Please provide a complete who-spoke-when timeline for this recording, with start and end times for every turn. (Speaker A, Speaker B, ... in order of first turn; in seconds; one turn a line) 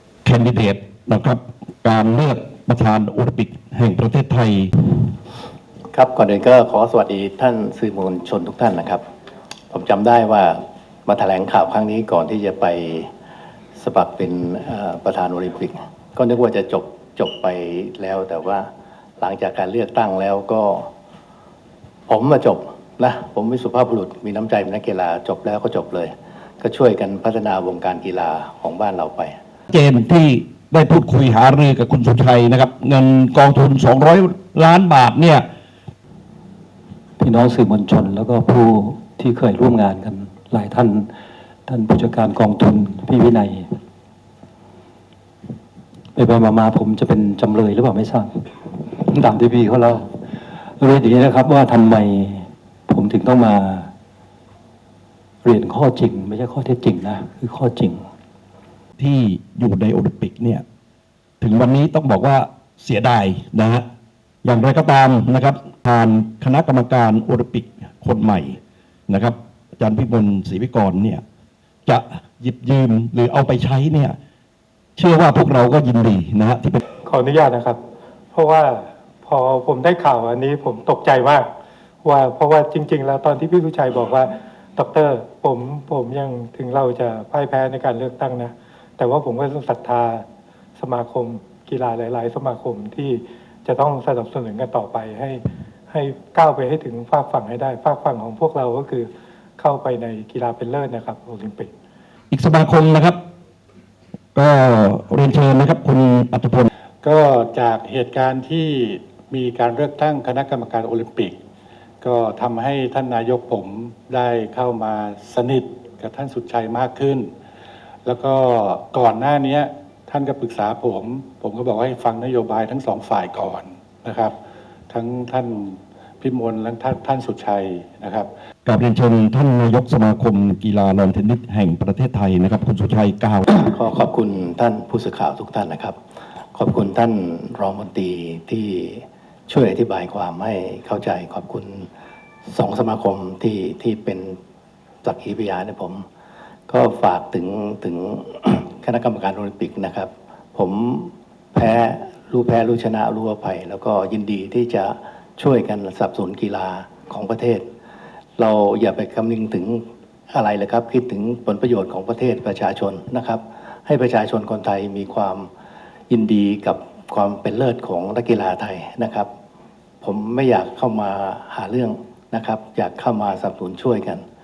Speaker A: 0.2-4.7
Speaker B: 5.9-9.0
Speaker B: 9.7-13.1
Speaker B: 13.8-18.7
Speaker B: 19.2-20.9
Speaker B: 22.1-29.4
Speaker A: 29.7-35.5
Speaker C: 37.2-41.1
Speaker C: 41.7-43.8
Speaker C: 46.1-50.2
Speaker C: 50.8-53.9
Speaker C: 55.4-58.1
Speaker A: 59.0-60.6
Speaker A: 61.4-63.9
Speaker A: 64.4-68.6
Speaker A: 69.1-71.2
Speaker A: 71.9-74.2
Speaker A: 75.0-76.8
Speaker D: 77.0-77.8
Speaker D: 78.3-81.5
Speaker D: 82.0-90.2
Speaker D: 90.8-101.7
Speaker A: 102.3-103.2
Speaker A: 104.3-106.7
Speaker E: 107.0-111.4
Speaker E: 112.0-117.3
Speaker E: 118.1-124.3
Speaker E: 124.9-128.3
Speaker A: 128.7-133.5
Speaker B: 133.5-135.9
Speaker B: 136.5-141.9
Speaker B: 142.5-144.4
Speaker B: 145.0-146.1
Speaker B: 146.7-157.7
Speaker B: 158.4-165.5
Speaker B: 166.1-169.3
Speaker B: 170.0-174.2